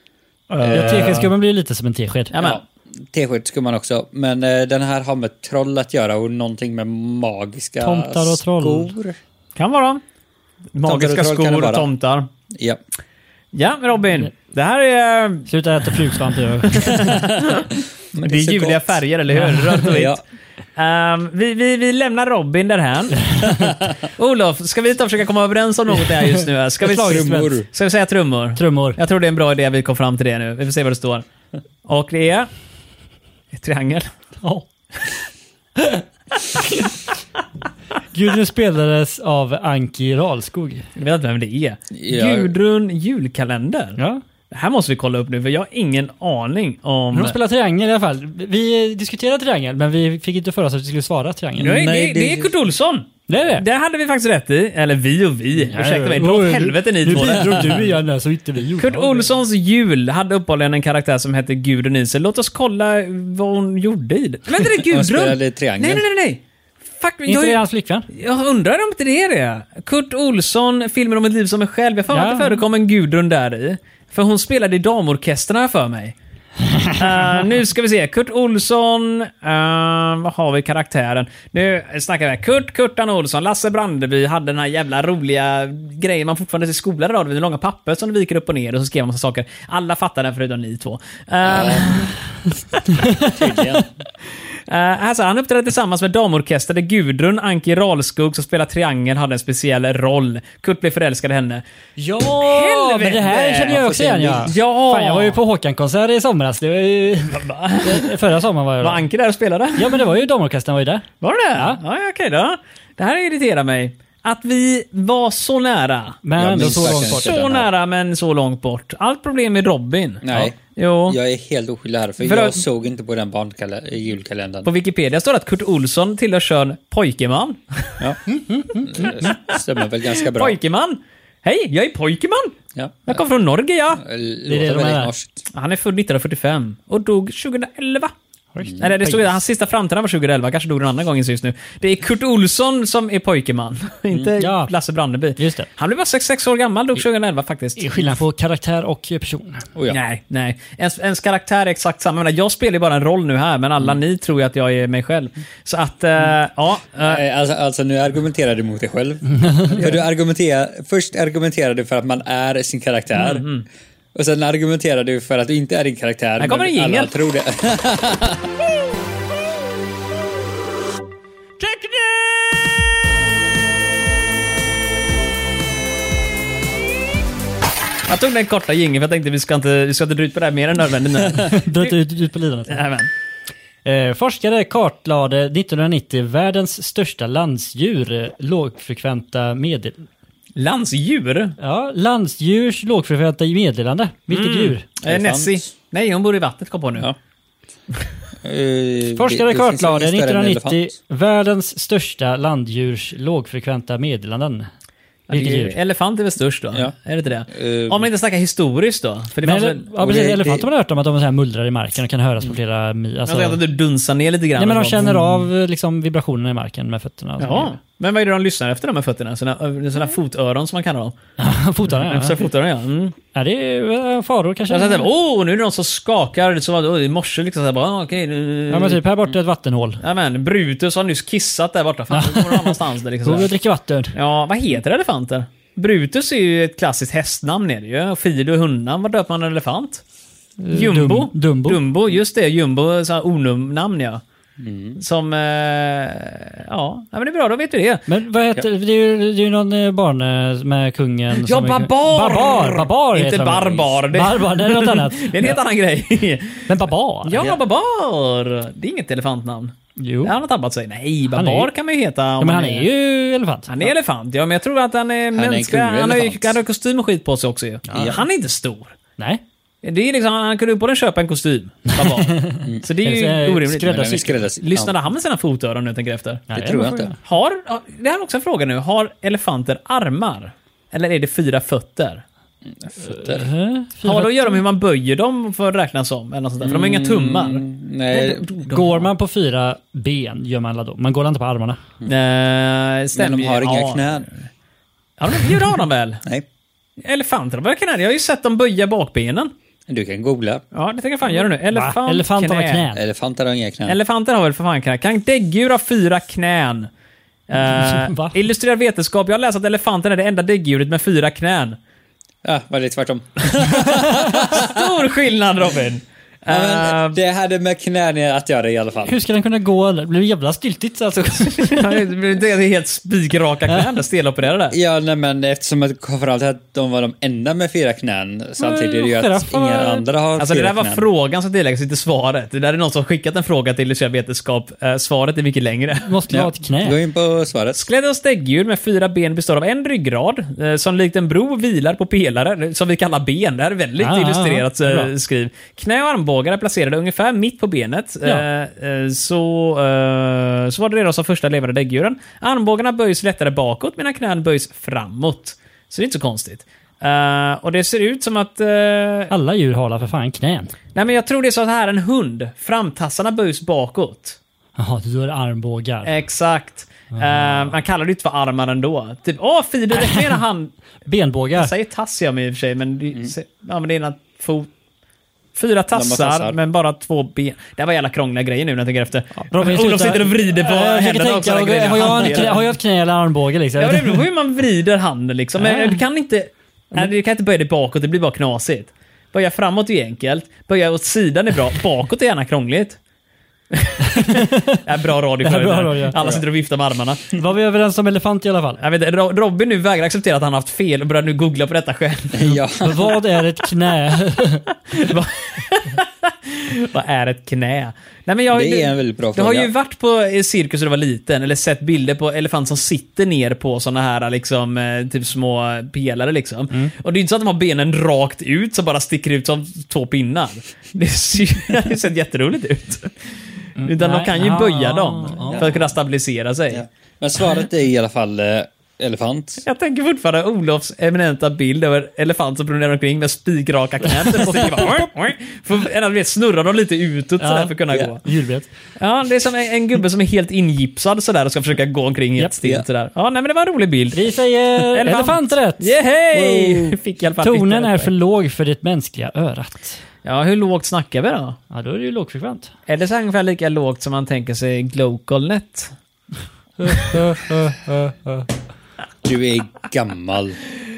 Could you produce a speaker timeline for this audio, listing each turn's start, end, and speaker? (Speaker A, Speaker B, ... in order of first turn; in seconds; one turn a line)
Speaker A: 0.5-1.3
Speaker B: 0.6-1.3
Speaker C: 0.7-2.3
Speaker A: 2.3-2.6
Speaker B: 2.4-9.2
Speaker C: 7.8-8.9
Speaker A: 9.6-10.0
Speaker A: 10.8-12.3
Speaker B: 10.8-11.9
Speaker B: 12.5-12.8
Speaker A: 13.5-15.5
Speaker C: 15.5-17.2
Speaker A: 16.6-17.7
Speaker B: 17.4-19.0
Speaker A: 18.2-20.2
Speaker C: 19.4-19.8
Speaker B: 19.8-20.2
Speaker A: 20.8-23.3
Speaker B: 23.5-23.9
Speaker A: 24.0-31.2
Speaker C: 26.1-27.6
Speaker B: 26.9-27.7
Speaker C: 28.6-29.0
Speaker A: 31.9-32.5
Speaker A: 33.5-34.1
Speaker C: 35.8-36.0
Speaker C: 38.1-40.9
Speaker A: 41.0-44.0
Speaker B: 41.9-42.5
Speaker A: 44.5-47.4
Speaker C: 47.1-51.9
Speaker B: 51.6-52.5
Speaker A: 51.6-57.8
Speaker C: 53.3-53.6
Speaker C: 55.7-59.3
Speaker A: 58.8-66.4
Speaker B: 64.8-66.0
Speaker A: 67.0-76.2
Speaker C: 67.3-68.1
Speaker C: 72.1-72.6
Speaker A: 77.0-92.2
Speaker B: 91.5-92.0
Speaker C: 93.0-93.4
Speaker B: 93.2-93.9
Speaker A: 94.7-101.6
Speaker C: 102.0-109.1
Speaker A: 102.2-103.9
Speaker B: 103.6-104.5
Speaker A: 104.4-105.4
Speaker A: 107.3-108.2
Speaker A: 108.8-110.0
Speaker C: 109.8-111.8
Speaker A: 111.2-116.2
Speaker C: 116.2-117.4
Speaker B: 116.4-117.7
Speaker A: 116.9-121.2
Speaker B: 120.2-124.7
Speaker A: 122.2-122.6
Speaker A: 124.6-128.0
Speaker C: 128.3-129.2
Speaker B: 128.8-130.6
Speaker A: 128.9-132.6
Speaker B: 132.8-133.2
Speaker A: 133.1-134.0
Speaker B: 134.0-135.4
Speaker C: 134.5-135.1
Speaker A: 135.5-138.1
Speaker C: 138.6-139.4
Speaker A: 138.8-148.0
Speaker C: 144.4-144.7
Speaker C: 145.4-145.7
Speaker C: 147.8-149.6
Speaker A: 149.9-157.2
Speaker B: 157.0-163.5
Speaker A: 159.8-160.0
Speaker A: 163.1-163.7
Speaker B: 164.1-168.5
Speaker A: 166.4-167.1
Speaker A: 171.6-172.6
Speaker A: 178.1-181.9
Speaker C: 181.3-182.8
Speaker A: 182.7-183.1
Speaker C: 183.8-190.0
Speaker A: 190.6-191.6
Speaker C: 191.6-194.9
Speaker A: 194.3-197.1
Speaker B: 195.0-195.7
Speaker B: 198.4-200.9
Speaker C: 199.2-204.7
Speaker A: 205.3-209.9
Speaker C: 205.3-205.8
Speaker B: 207.5-208.1
Speaker C: 209.4-213.6
Speaker B: 210.0-210.7
Speaker A: 213.3-215.2
Speaker C: 214.6-217.8
Speaker A: 217.4-221.2
Speaker C: 221.4-222.4
Speaker A: 222.0-223.2
Speaker C: 223.3-225.1
Speaker A: 224.7-229.0
Speaker C: 228.7-230.0
Speaker A: 230.0-233.5
Speaker C: 232.1-234.1
Speaker A: 234.1-240.0
Speaker C: 240.6-241.8
Speaker A: 240.7-244.2
Speaker B: 244.6-245.0
Speaker A: 245.0-248.0
Speaker C: 248.1-255.6
Speaker A: 251.3-256.7
Speaker C: 256.7-257.6
Speaker A: 257.2-262.9
Speaker C: 260.0-260.4
Speaker C: 261.3-261.7
Speaker C: 262.4-263.9
Speaker A: 263.7-269.0
Speaker B: 265.4-266.6
Speaker C: 267.9-268.2
Speaker B: 267.9-268.2
Speaker A: 269.8-276.5
Speaker C: 271.9-274.5
Speaker B: 273.9-274.9
Speaker C: 276.5-277.2
Speaker B: 276.5-277.1
Speaker A: 277.2-282.2
Speaker B: 282.8-283.4
Speaker C: 283.0-284.6
Speaker A: 284.0-287.6
Speaker B: 286.6-288.6
Speaker C: 288.1-291.8
Speaker A: 292.1-294.4
Speaker B: 293.1-294.3
Speaker A: 295.2-296.2
Speaker A: 297.0-299.5
Speaker B: 299.9-300.6
Speaker A: 300.7-302.8
Speaker C: 301.4-303.0
Speaker B: 302.9-304.0
Speaker A: 303.9-306.9
Speaker A: 307.5-311.8
Speaker C: 307.6-308.4
Speaker B: 312.4-314.9
Speaker A: 313.5-317.2
Speaker B: 316.5-319.2
Speaker C: 319.1-322.1
Speaker A: 321.6-324.8
Speaker B: 324.7-331.1
Speaker C: 328.6-330.0
Speaker A: 330.4-336.1
Speaker C: 336.0-337.0
Speaker B: 336.3-337.9
Speaker A: 337.8-359.3
Speaker C: 344.0-345.1
Speaker C: 359.3-360.7
Speaker A: 360.9-364.4
Speaker C: 364.8-366.1
Speaker A: 366.0-370.7
Speaker C: 367.2-367.6
Speaker C: 370.0-370.3
Speaker C: 371.1-371.7
Speaker A: 371.6-374.7
Speaker A: 375.6-382.6
Speaker B: 375.9-376.6
Speaker C: 379.5-384.2
Speaker A: 383.8-393.0
Speaker C: 385.6-386.0
Speaker A: 393.7-397.3
Speaker C: 394.2-394.8
Speaker C: 395.4-396.2
Speaker B: 396.2-396.4
Speaker C: 397.3-398.8
Speaker A: 398.8-402.5
Speaker B: 402.3-403.2
Speaker C: 402.7-404.7
Speaker A: 404.9-423.2
Speaker B: 408.5-409.7
Speaker C: 423.8-425.8
Speaker A: 423.8-426.8
Speaker B: 425.5-425.8
Speaker B: 426.7-429.6
Speaker A: 429.6-438.2
Speaker C: 434.2-435.0
Speaker C: 437.4-438.7
Speaker A: 439.0-444.2
Speaker C: 444.1-445.9
Speaker A: 444.9-448.1
Speaker B: 446.3-447.0
Speaker C: 447.4-450.0
Speaker A: 450.2-451.6
Speaker C: 451.7-452.7
Speaker A: 452.9-455.9
Speaker C: 456.8-458.5
Speaker B: 459.2-460.6